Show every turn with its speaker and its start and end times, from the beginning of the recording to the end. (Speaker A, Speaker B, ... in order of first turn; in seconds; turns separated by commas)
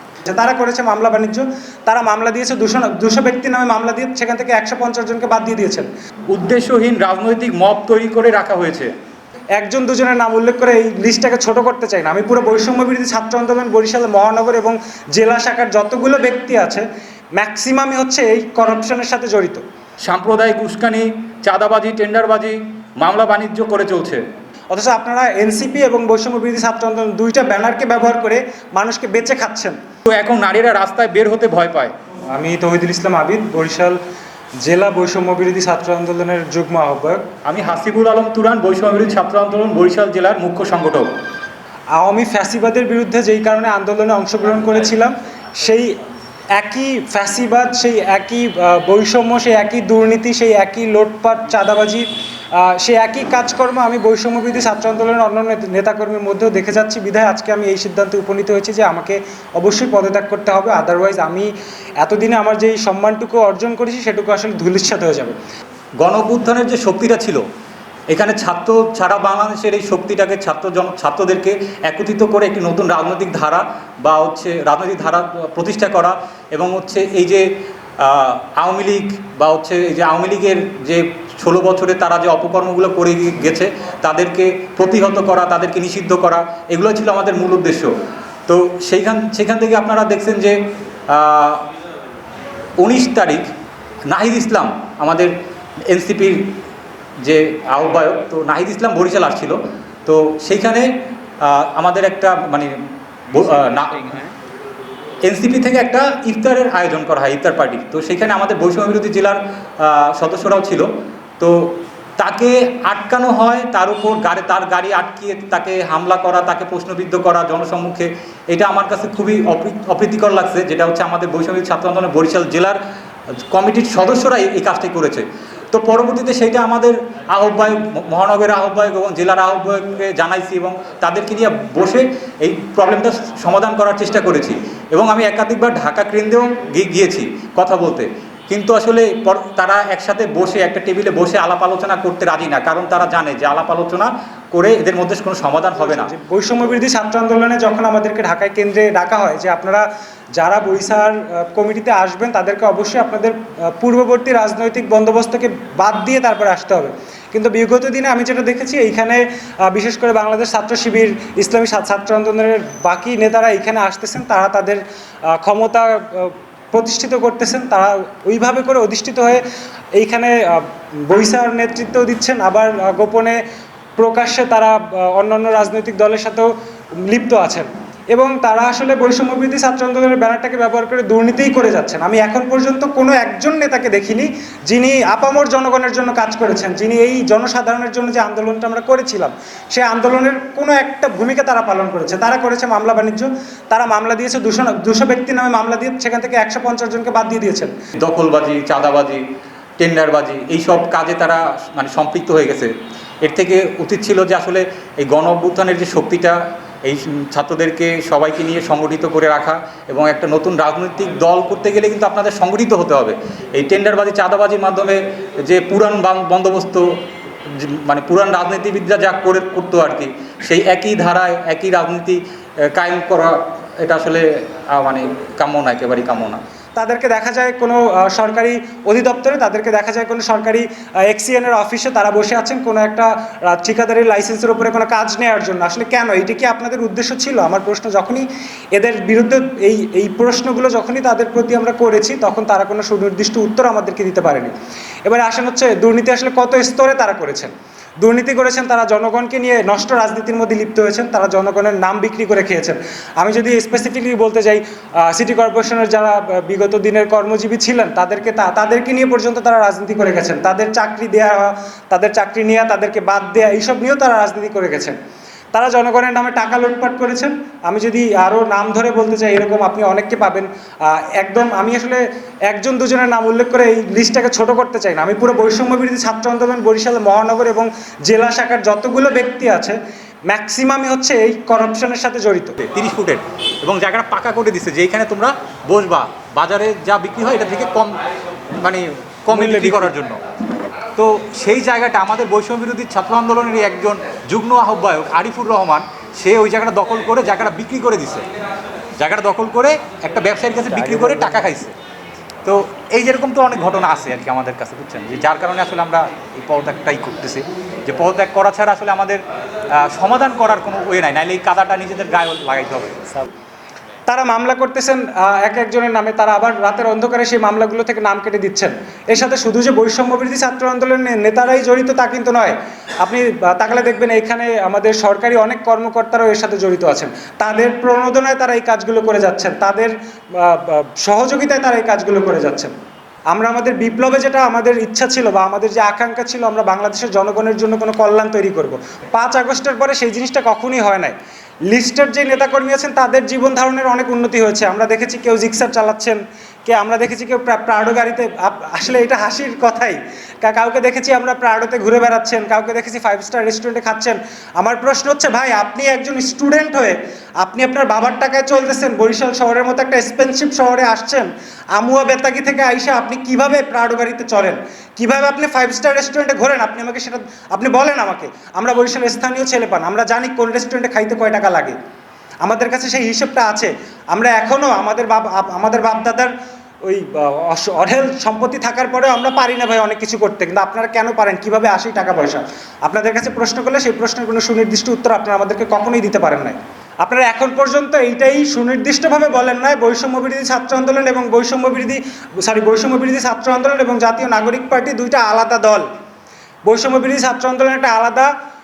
Speaker A: 0.3-5.9, Speaker B: 6.3-8.9, Speaker A: 9.6-19.6, Speaker B: 20.0-24.2, Speaker A: 24.7-29.8, Speaker B: 30.1-31.9, Speaker A: 32.3-34.0, Speaker A: 34.6-37.2, Speaker B: 37.5-41.1, Speaker A: 42.0-46.0, Speaker A: 46.6-65.4, Speaker B: 66.0-67.4, Speaker B: 68.1-77.4, Speaker B: 78.0-87.9, Speaker B: 88.5-90.6, Speaker B: 91.1-91.6, Speaker B: 92.8-93.5, Speaker B: 94.1-95.3, Speaker B: 95.9-96.5, Speaker B: 97.2-102.8, Speaker B: 103.3-104.3, Speaker B: 105.2-110.9, Speaker B: 111.4-122.8, Speaker B: 123.5-146.1, Speaker A: 145.9-149.9, Speaker A: 150.4-169.4, Speaker A: 170.0-173.4, Speaker A: 174.0-197.8, Speaker B: 197.9-199.2, Speaker B: 199.8-202.7, Speaker B: 203.2-226.4, Speaker A: 226.8-244.5, Speaker A: 245.1-265.0, Speaker A: 265.5-282.6, Speaker B: 282.6-288.0, Speaker B: 288.6-290.2, Speaker A: 289.3-289.9, Speaker B: 291.0-298.2, Speaker B: 299.0-301.8, Speaker A: 300.9-301.3, Speaker B: 302.4-309.2, Speaker B: 309.8-313.1, Speaker A: 314.1-332.7, Speaker A: 333.3-341.2, Speaker A: 341.7-371.8, Speaker A: 372.4-376.3, Speaker A: 376.8-395.9, Speaker A: 396.7-398.3